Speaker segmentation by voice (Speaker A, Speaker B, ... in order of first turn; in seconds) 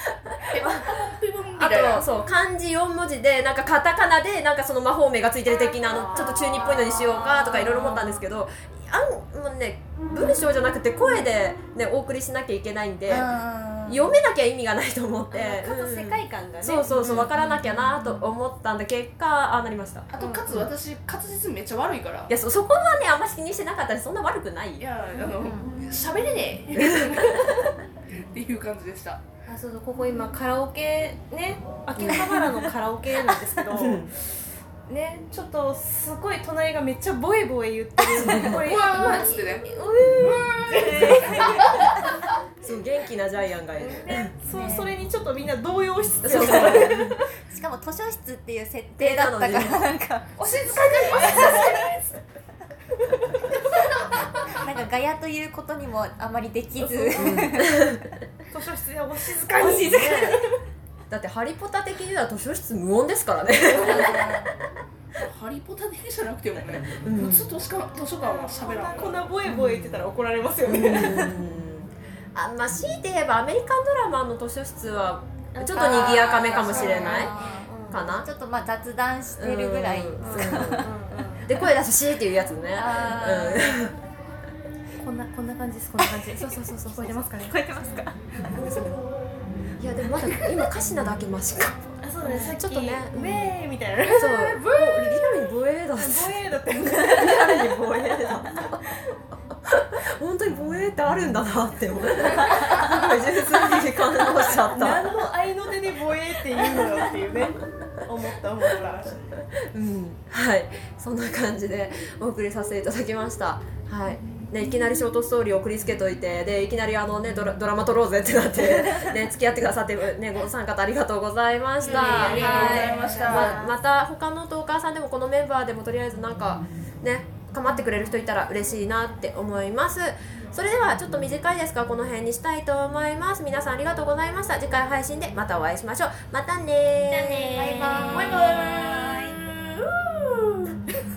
Speaker A: 0.5-2.1, 16.9-17.3, 20.1-22.3, 24.8-27.7, 28.3-29.2, 38.5-39.7, 40.2-41.0, 50.4-52.2, 63.7-64.3, 65.2-69.3, 94.0-95.3, 121.8-123.6, 137.8-140.6
Speaker B: 1.6-13.3, 13.8-20.7, 22.3-24.9, 26.8-27.4, 32.0-32.3, 33.7-34.1, 38.2-38.6, 42.6-44.4, 46.2-47.2, 49.0-49.9, 57.2-58.0, 59.6-60.4, 61.1-64.5, 66.9-67.5, 69.5-70.0, 70.7-77.3, 77.9-78.3, 79.4-80.9, 81.4-84.0, 86.4-87.3, 88.5-88.9, 89.8-93.5, 94.2-96.3, 96.9-98.8, 100.2-105.1, 109.3-138.0
Speaker C: 5.8-6.4, 15.3-16.9, 20.2-20.5, 29.5-34.1, 34.9-41.8, 43.8-47.3, 50.8-51.7, 56.8-57.5, 58.5-60.6, 68.2-71.4, 75.6-78.0, 80.2-81.5, 84.9-87.9, 92.0-94.3, 96.0-97.4, 104.6-109.2, 121.9-123.7, 137.1-138.2
Speaker D: 6.9-8.1, 13.1-14.1, 17.4-18.2, 41.1-41.4, 44.5-44.9, 47.5-50.3, 51.1-51.7, 54.6-58.0, 64.0-64.5, 75.7-80.9, 82.7-83.8, 87.5-88.1, 122.4-122.9, 137.6-139.4